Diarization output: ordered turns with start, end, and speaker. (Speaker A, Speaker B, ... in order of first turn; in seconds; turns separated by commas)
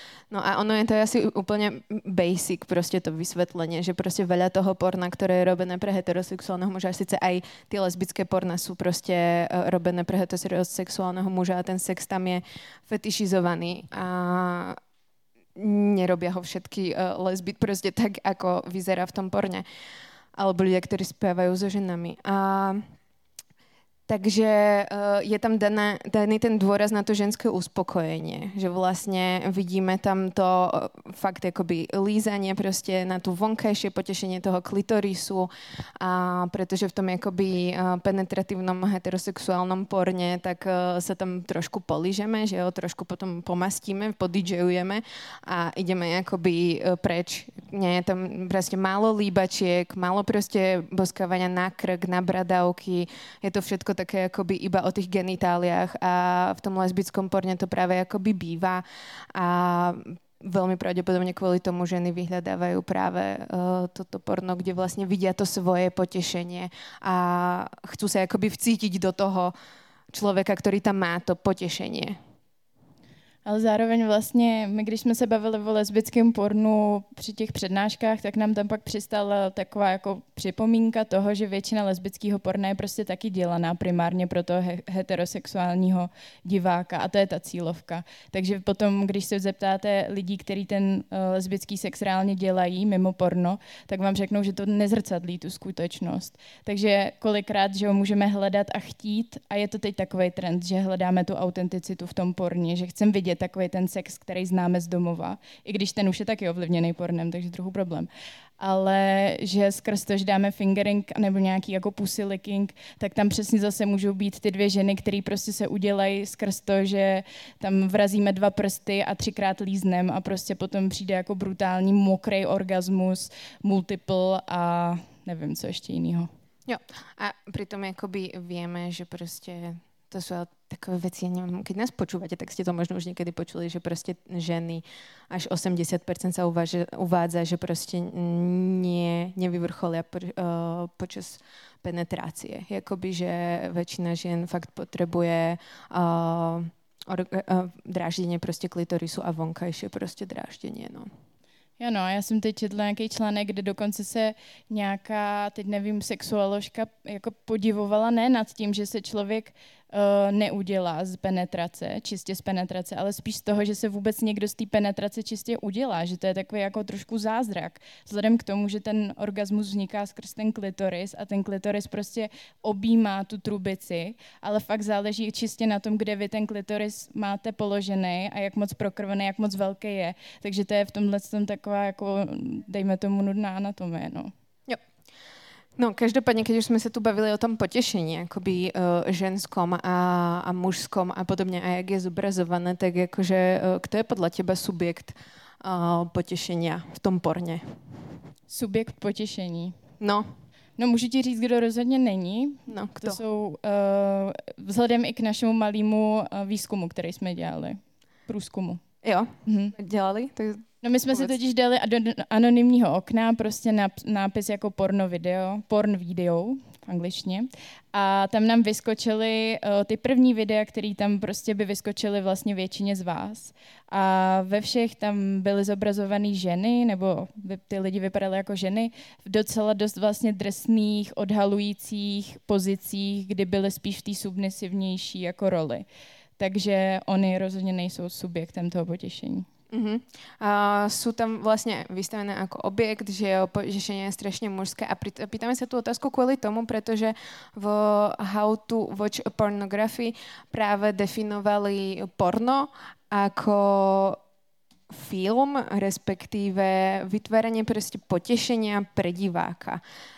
Speaker A: 0.3-14.8, Speaker A: 15.6-19.6, Speaker A: 20.4-22.8, Speaker A: 24.1-69.5, Speaker A: 70.1-72.2, Speaker B: 73.5-108.1, Speaker B: 108.6-126.3, Speaker A: 126.7-151.1, Speaker B: 151.8-184.3, Speaker A: 185.8-197.8, Speaker B: 198.5-199.8, Speaker A: 200.0-200.3, Speaker B: 200.8-208.8, Speaker A: 202.7-203.2, Speaker A: 209.0-211.3, Speaker B: 209.5-209.8, Speaker B: 210.8-235.9, Speaker B: 236.4-239.5, Speaker A: 239.7-254.2, Speaker A: 254.9-259.8